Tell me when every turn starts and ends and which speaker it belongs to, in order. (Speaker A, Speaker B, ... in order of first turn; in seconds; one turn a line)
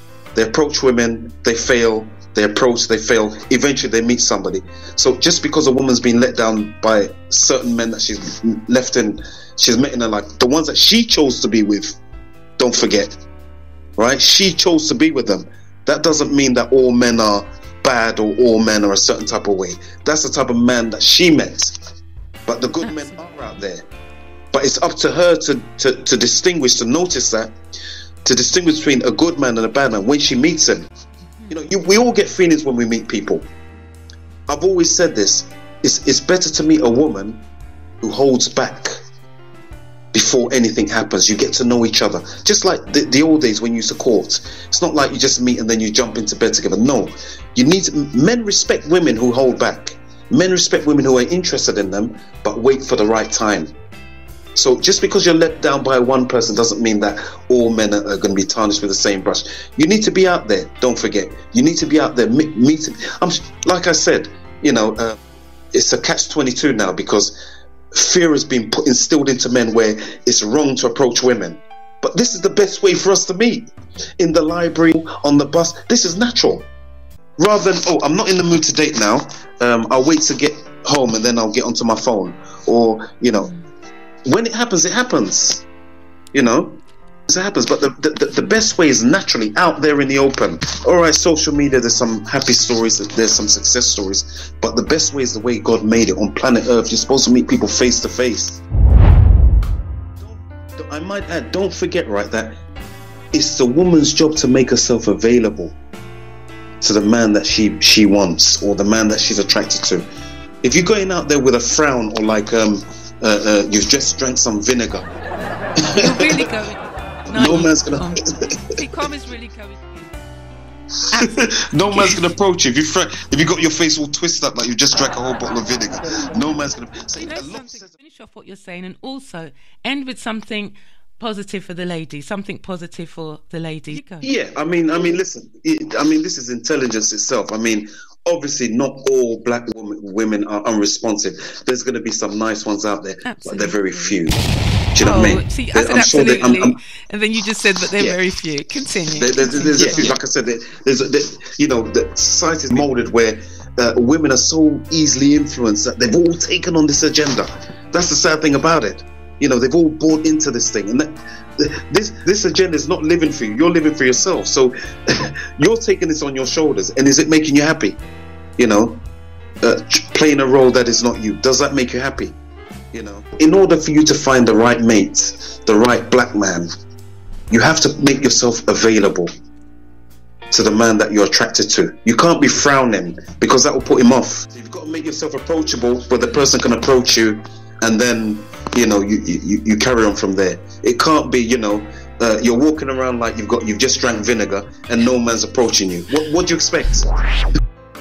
Speaker A: 0.3-11.9
Speaker A: 12.6-13.2
Speaker A: 14.0-21.8
Speaker A: 22.5-23.8
Speaker B: 22.8-23.2
Speaker A: 24.5-27.5
Speaker A: 28.2-30.9
Speaker B: 31.3-31.6
Speaker A: 31.5-33.5
Speaker A: 34.5-37.4
Speaker A: 38.0-38.9
Speaker A: 40.1-53.7
Speaker A: 54.5-65.2
Speaker A: 65.7-67.3
Speaker A: 67.9-76.7
Speaker A: 77.4-83.6
Speaker A: 84.3-85.6
Speaker A: 86.3-98.6
Speaker A: 100.2-102.5
Speaker A: 103.3-105.8
Speaker A: 106.8-110.0
Speaker A: 110.6-115.0
Speaker A: 115.8-116.4
Speaker B: 116.0-120.1
Speaker A: 117.3-118.6
Speaker B: 121.1-122.3
Speaker A: 121.2-127.9
Speaker B: 127.1-134.3
Speaker A: 134.2-144.4
Speaker B: 143.2-144.2
Speaker A: 144.9-146.8
Speaker B: 145.0-150.2
Speaker A: 149.2-168.0
Speaker A: 168.6-169.0
Speaker A: 169.6-172.3
Speaker A: 172.9-176.7
Speaker A: 177.5-179.3
Speaker A: 180.5-197.1